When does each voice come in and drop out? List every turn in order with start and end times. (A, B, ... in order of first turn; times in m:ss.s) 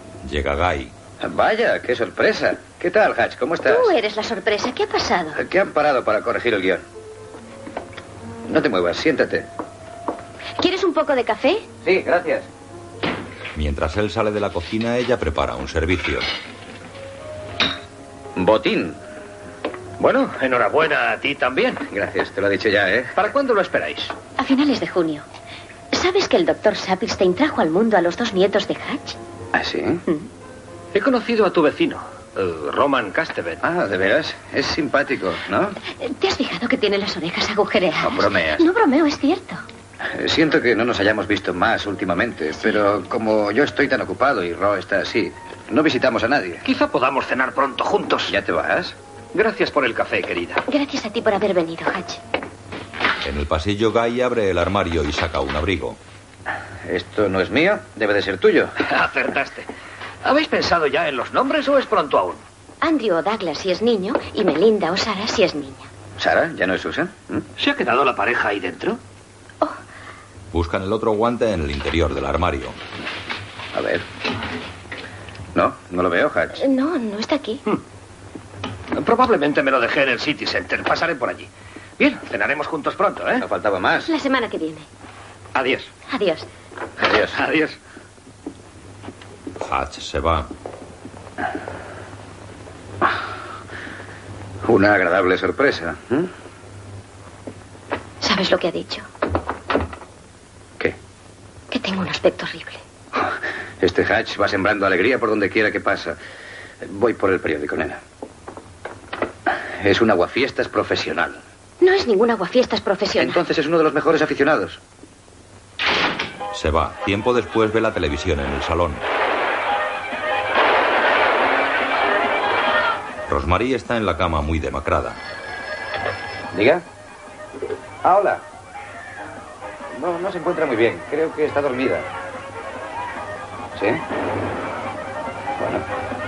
0:00.2-0:00.9 A
0:01.2-0:03.9 B
0:03.6-0:05.4 C
0:05.3-0:06.8 B
0:08.5-0:09.5 B
0:10.6-0:11.7 C
0:11.8-0:12.5 B
0:13.5-0:16.2 A
0:18.4-0:19.0 B
0:20.0-0:21.8 D
0:21.9-0:23.1 B
0:23.1-0:24.1 D
0:24.4-0:25.2 C
0:25.9-0:29.2 C
0:29.5-0:30.0 B
0:30.9-0:33.6 D
0:33.6-0:35.7 B
0:36.0-0:39.6 C
0:38.0-0:38.6 B
0:40.1-0:46.6 B
0:46.6-0:48.4 D
0:48.3-0:49.0 B
0:49.3-0:50.6 D
0:50.7-0:52.2 C
0:53.2-0:56.0 A
0:56.8-0:58.7 B
0:58.8-0:59.7 D
1:00.2-1:02.4 D
1:02.8-1:05.9 C
1:06.2-1:07.4 B
1:07.6-1:09.0 D
1:10.5-1:12.8 A
1:13.7-1:14.0 B
1:15.5-1:16.6 B
1:16.6-1:17.6 C
1:19.0-1:23.4 D
1:23.4-1:24.1 B
1:24.0-1:24.8 C
1:25.5-1:25.9 D
1:26.1-1:26.5 C
1:27.0-1:27.4 B
1:27.3-1:27.8 D
1:29.6-1:30.5 A
1:34.6-1:36.3 B
1:38.2-1:39.0 C
1:41.7-1:42.8 C
1:43.2-1:46.2 B
1:46.8-1:48.0 B
1:49.8-1:51.4 B
1:51.8-1:53.4 C
1:53.2-1:54.8 B
1:56.5-1:59.0 A
2:03.3-2:05.2 A
2:06.5-2:06.8 B
2:08.0-2:08.4 B
2:09.9-2:12.1 B
2:13.7-2:14.0 B
2:15.6-2:15.8 B